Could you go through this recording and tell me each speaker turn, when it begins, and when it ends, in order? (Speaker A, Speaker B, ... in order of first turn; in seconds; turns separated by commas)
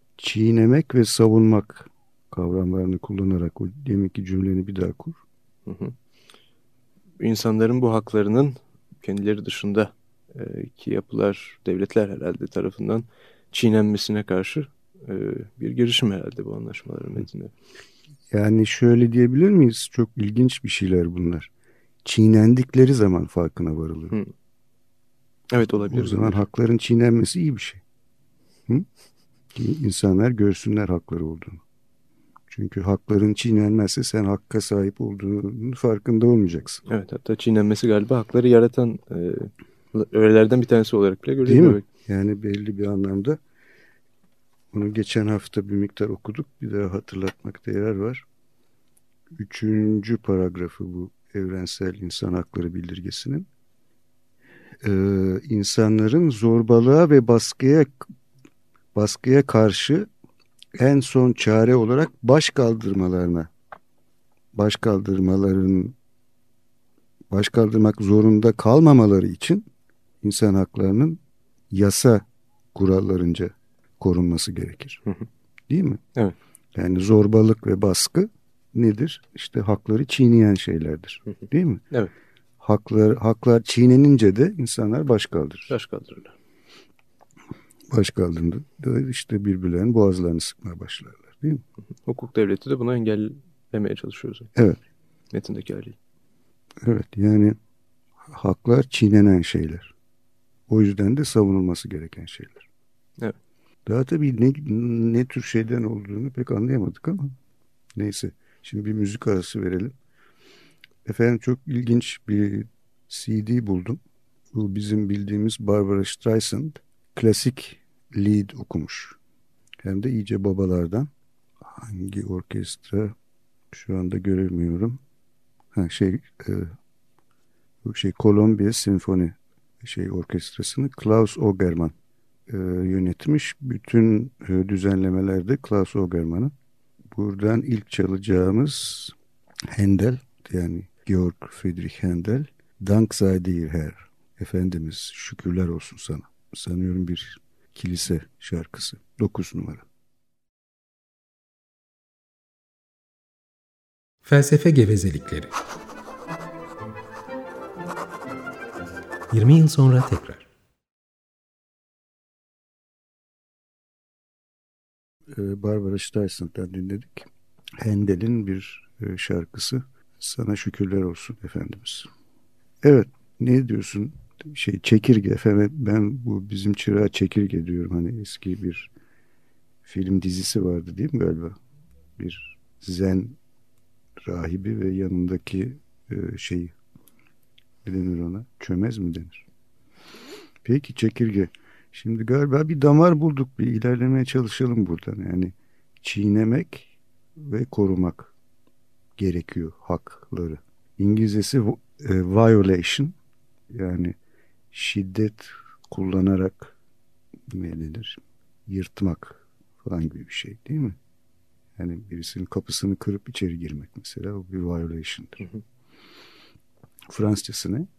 Speaker A: 0.2-5.2, Speaker B: 5.7-5.9, Speaker B: 7.2-17.5, Speaker A: 18.3-21.5, Speaker A: 22.0-24.2, Speaker B: 25.5-26.4, Speaker A: 25.9-27.8, Speaker A: 29.5-31.6, Speaker A: 32.5-36.8, Speaker B: 36.9-41.8, Speaker A: 41.4-43.4, Speaker A: 44.7-48.2, Speaker A: 49.3-53.5, Speaker A: 54.8-58.1, Speaker A: 58.9-60.1, Speaker A: 60.8-63.5, Speaker A: 64.5-66.0, Speaker A: 67.3-69.7, Speaker A: 70.2-71.2, Speaker A: 71.7-75.0, Speaker A: 75.7-76.0, Speaker A: 76.7-81.8, Speaker A: 82.6-85.7, Speaker B: 85.7-86.3, Speaker A: 87.9-91.6, Speaker B: 92.0-94.5, Speaker A: 94.5-94.8, Speaker B: 95.3-96.0, Speaker A: 96.8-97.6, Speaker A: 98.2-99.9, Speaker A: 100.7-102.7, Speaker A: 103.8-107.3, Speaker A: 107.9-109.9, Speaker A: 111.0-114.0, Speaker A: 114.5-119.2, Speaker A: 119.8-121.1, Speaker A: 121.6-123.1, Speaker A: 123.7-125.0, Speaker A: 125.7-126.7, Speaker A: 127.8-131.9, Speaker A: 132.5-136.5, Speaker A: 137.1-139.1, Speaker A: 139.7-149.8, Speaker C: 154.2-155.6, Speaker C: 159.3-160.5, Speaker A: 165.3-167.3, Speaker A: 167.8-172.1, Speaker A: 172.8-178.9, Speaker A: 179.8-181.6, Speaker A: 182.2-183.4, Speaker A: 184.2-186.7, Speaker A: 187.8-189.4, Speaker A: 190.6-198.3, Speaker A: 199.2-203.2, Speaker A: 203.7-204.2, Speaker A: 204.7-206.7, Speaker A: 207.5-211.0, Speaker A: 211.8-215.4, Speaker A: 217.1-217.9